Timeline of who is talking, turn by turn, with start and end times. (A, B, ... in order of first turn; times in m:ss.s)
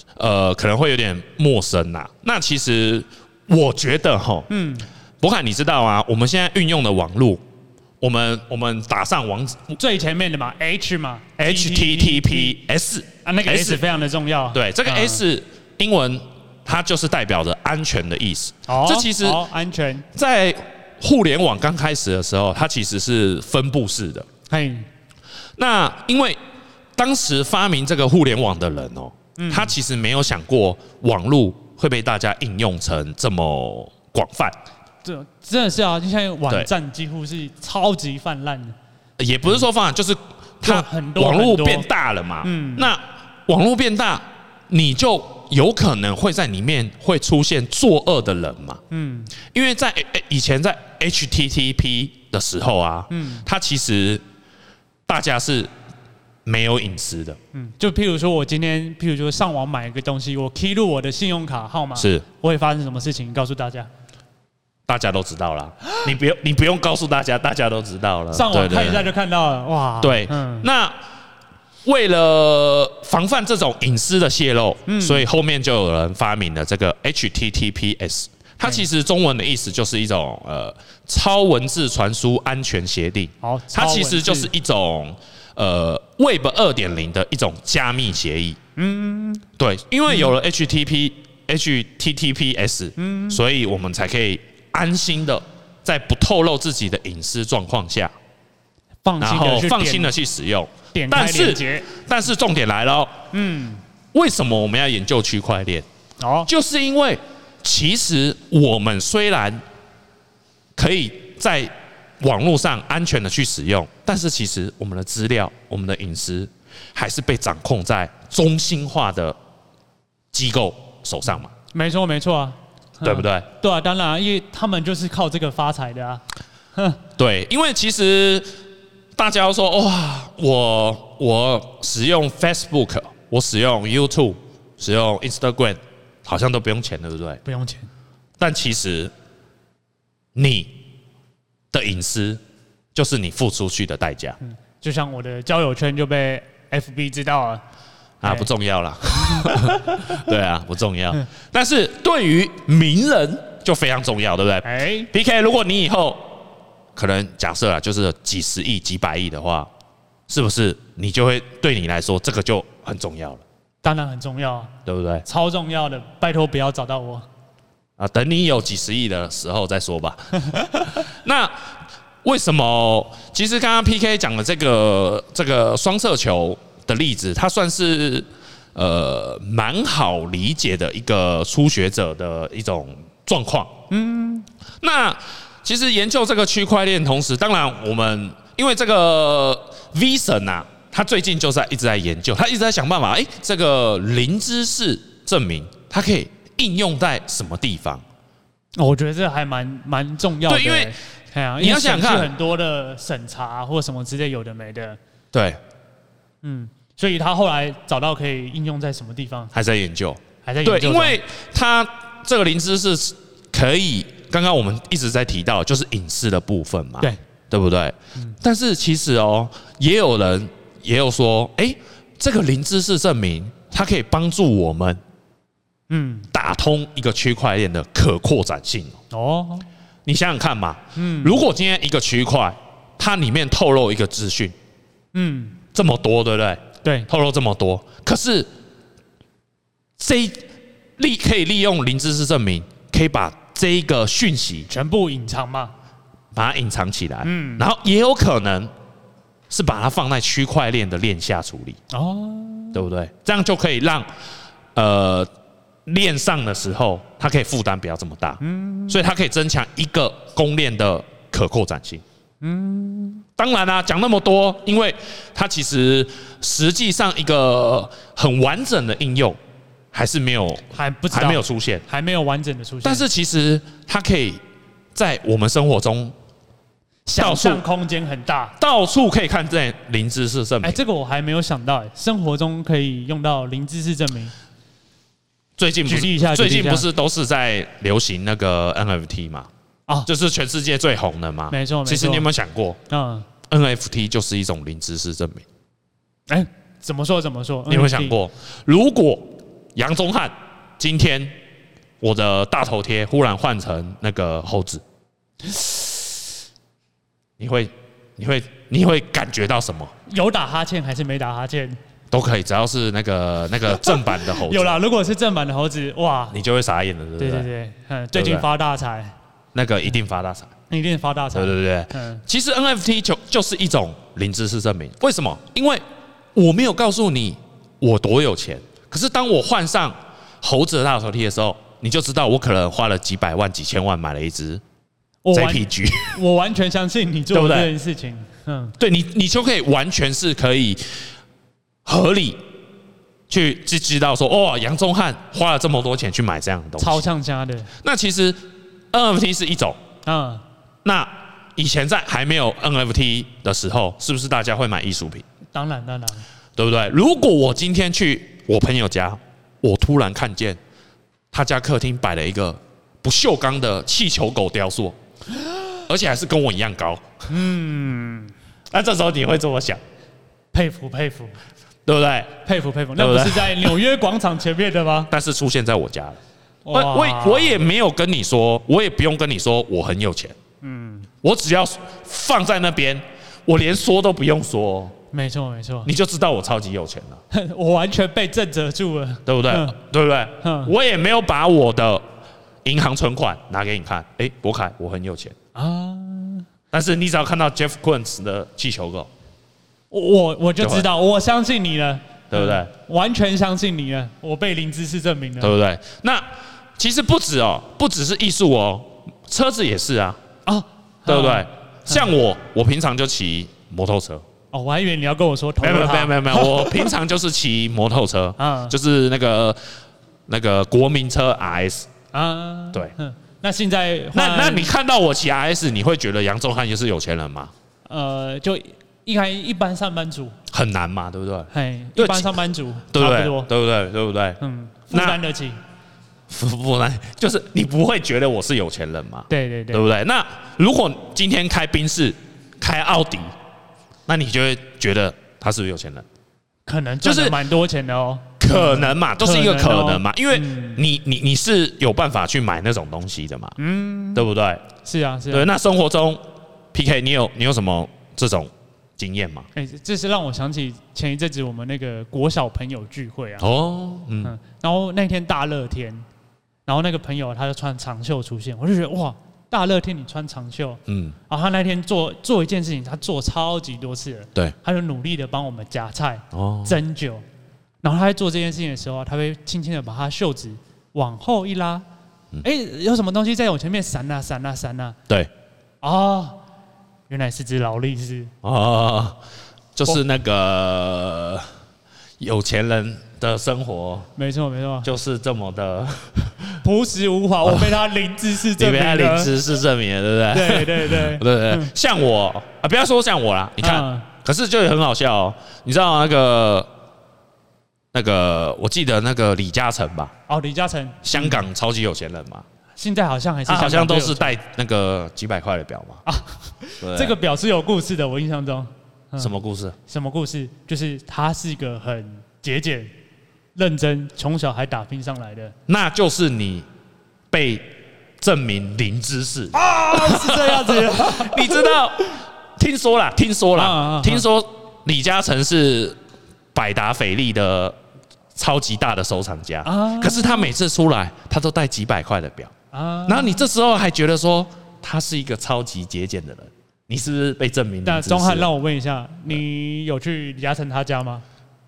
0:00.2-0:04.5 A
0:04.5-0:04.8 B
0:05.2-0:07.4 A
0:08.0-0:09.8 A
0:09.8-0:12.6 B
0:11.4-0:13.8 A
0:13.2-0:15.2 B
0:14.5-0:19.4 A
0:18.7-0:20.0 B
0:20.1-0:24.3 A
0:24.5-0:24.8 B
0:25.6-0:26.4 A
0:27.0-0:34.6 A
0:29.4-0:29.7 B
0:35.0-0:38.7 B
0:39.2-0:48.8 A
0:40.6-0:41.9 B
0:42.4-0:42.9 B
0:48.9-0:49.3 B
0:49.4-0:54.2 A
0:53.1-0:53.4 B
0:55.1-0:55.7 A
0:56.4-0:57.4 A
0:57.5-1:03.9 B
1:02.0-1:02.2 A
1:04.9-1:09.1 A
1:08.3-1:10.7 B
1:10.0-1:11.0 A
1:11.8-1:28.6 A
1:14.9-1:15.3 B
1:23.4-1:24.5 B
1:28.8-1:29.4 B
1:29.6-1:38.1 A
1:33.0-1:33.4 B
1:39.0-1:40.1 B
1:39.2-1:43.2 A
1:40.9-1:41.9 B
1:43.3-1:43.8 B
1:44.1-1:45.8 A
1:46.2-1:46.5 B
1:46.5-1:49.6 A
1:50.8-1:59.4 A
2:00.3-2:01.5 A
2:01.7-2:06.2 B
2:03.0-2:03.4 A
2:06.7-2:07.0 B
2:07.2-2:08.5 A
2:09.2-2:17.4 A
2:17.4-2:17.9 B
2:18.4-2:19.1 A
2:20.3-2:20.8 A
2:21.7-2:22.4 A
2:22.9-2:24.4 A
2:24.4-2:27.6 B
2:28.2-2:36.3 A
2:29.2-2:29.7 B
2:34.6-2:35.1 B
2:36.9-2:39.7 A
2:40.3-2:43.4 A
2:43.8-2:44.7 B
2:44.8-2:45.2 A
2:45.2-2:47.3 B
2:48.0-2:51.7 A
2:52.2-3:03.7 A
3:03.9-3:04.4 B
3:04.8-3:18.0 A
3:18.8-3:25.0 B
3:20.4-3:20.9 A
3:21.6-3:22.3 A
3:25.3-3:25.6 A
3:26.4-3:29.5 B
3:29.5-3:45.0 A
3:30.4-3:31.2 B
3:45.9-3:46.3 B
3:46.3-3:49.0 A
3:49.1-3:49.6 B
3:50.0-3:54.6 A
3:51.0-3:51.4 B
3:55.1-3:55.6 B
3:55.7-3:58.5 A
3:56.8-3:57.1 B
4:00.0-4:00.4 A
4:01.0-4:04.7 A
4:04.7-4:05.7 B
4:06.3-4:08.7 A
4:07.2-4:07.6 B
4:09.5-4:11.8 A
4:11.9-4:12.8 B
4:12.7-4:14.1 A
4:14.7-4:15.3 A
4:15.8-4:22.0 A
4:18.4-4:19.0 B
4:22.4-4:23.2 B
4:23.4-4:29.4 A
4:29.9-4:31.8 A
4:30.7-4:33.0 B
4:32.8-4:34.4 A
4:34.9-4:36.1 A
4:37.1-4:38.5 B
4:37.2-4:37.6 A
4:38.6-4:40.8 A
4:40.6-4:44.3 B
4:45.6-4:49.5 A
4:45.8-4:46.9 B
4:50.1-4:52.8 A
4:51.5-4:52.3 B
4:52.9-4:53.3 B
4:53.5-4:55.4 A
4:56.3-4:58.2 B
4:57.7-5:01.4 A
5:02.0-5:04.8 A
5:05.4-5:06.1 B
5:07.4-5:09.9 A
5:10.1-5:11.8 B
5:12.1-5:14.8 A
5:13.7-5:16.4 B
5:16.3-5:17.5 A
5:17.2-5:19.1 B
5:18.1-5:18.4 A
5:19.5-5:20.5 A
5:20.7-5:22.2 B
5:21.3-5:25.8 A
5:26.3-5:34.6 A
5:35.2-5:38.8 B
5:35.3-5:36.2 A
5:37.3-5:37.7 A
5:38.8-5:40.8 A
5:41.8-5:42.4 A
5:43.3-5:47.0 A
5:46.8-5:47.7 B
5:47.8-5:49.8 A
5:50.0-5:50.4 B
5:50.8-5:55.2 A
5:55.5-5:56.2 B
5:56.6-6:00.6 A
6:01.3-6:05.0 A
6:05.9-6:07.1 A
6:07.3-6:08.3 B
6:08.7-6:09.8 A
6:10.5-6:11.4 B
6:11.8-6:12.4 A
6:12.4-6:15.1 B
6:13.0-6:13.8 A
6:15.1-6:16.2 A
6:16.6-6:17.6 B
6:16.7-6:20.4 A
6:20.6-6:21.1 B
6:21.2-6:24.9 A
6:25.1-6:25.9 B
6:25.8-6:27.2 A
6:27.3-6:29.8 B
6:29.2-6:32.0 A
6:30.4-6:30.7 B
6:32.6-6:35.4 A
6:35.5-6:36.4 B
6:36.7-6:39.1 A
6:39.9-6:45.5 B
6:40.6-6:40.9 A
6:42.3-6:42.7 A
6:45.4-6:50.2 A
6:50.4-6:52.1 B
6:51.1-6:54.2 A
6:54.5-6:56.9 B
6:55.6-6:59.6 A
6:58.4-6:58.8 B
7:00.3-7:01.9 A
7:02.1-7:04.7 B
7:04.1-7:07.5 A
7:07.9-7:10.3 B
7:10.5-7:12.4 A
7:11.5-7:13.5 B
7:12.9-7:14.4 A
7:14.4-7:15.6 B
7:14.9-7:15.2 A
7:16.3-7:23.3 A
7:19.3-7:19.8 B
7:24.1-7:26.0 A
7:26.6-7:30.8 B
7:27.0-7:27.4 A
7:28.4-7:33.6 A
7:33.6-7:34.2 B
7:34.1-7:34.6 A
7:34.8-7:35.5 B
7:35.3-7:36.2 A
7:36.7-7:39.5 A
7:39.5-7:43.5 B
7:43.4-7:44.3 A
7:44.2-7:46.0 B
7:46.7-7:57.2 B
7:50.9-7:51.2 A
7:56.3-7:56.8 A
7:57.8-8:01.8 B
8:02.4-8:05.0 B
8:05.8-8:06.4 B
8:07.1-8:08.3 B
8:08.4-8:09.2 A
8:09.7-8:11.5 A
8:12.2-8:14.1 A
8:14.2-8:14.9 B
8:14.8-8:16.6 A
8:16.6-8:19.3 B
8:17.4-8:17.8 A
8:18.6-8:26.7 A
8:20.3-8:21.7 B
8:23.6-8:24.1 B
8:27.9-8:30.1 A
8:30.3-8:31.4 B
8:31.0-8:32.4 A
8:32.8-8:34.3 B
8:33.5-8:36.0 A
8:36.0-8:39.3 B
8:36.8-8:37.2 A
8:39.2-8:39.8 A
8:39.9-8:42.9 B
8:43.5-8:45.5 B
8:45.7-8:46.7 A
8:47.3-8:56.0 A
8:49.5-8:51.8 B
8:53.5-8:54.2 B
8:56.5-8:57.8 A
8:58.3-9:02.5 A
8:59.6-9:00.5 B
9:02.7-9:03.4 B
9:03.0-9:08.5 A
9:07.8-9:11.2 B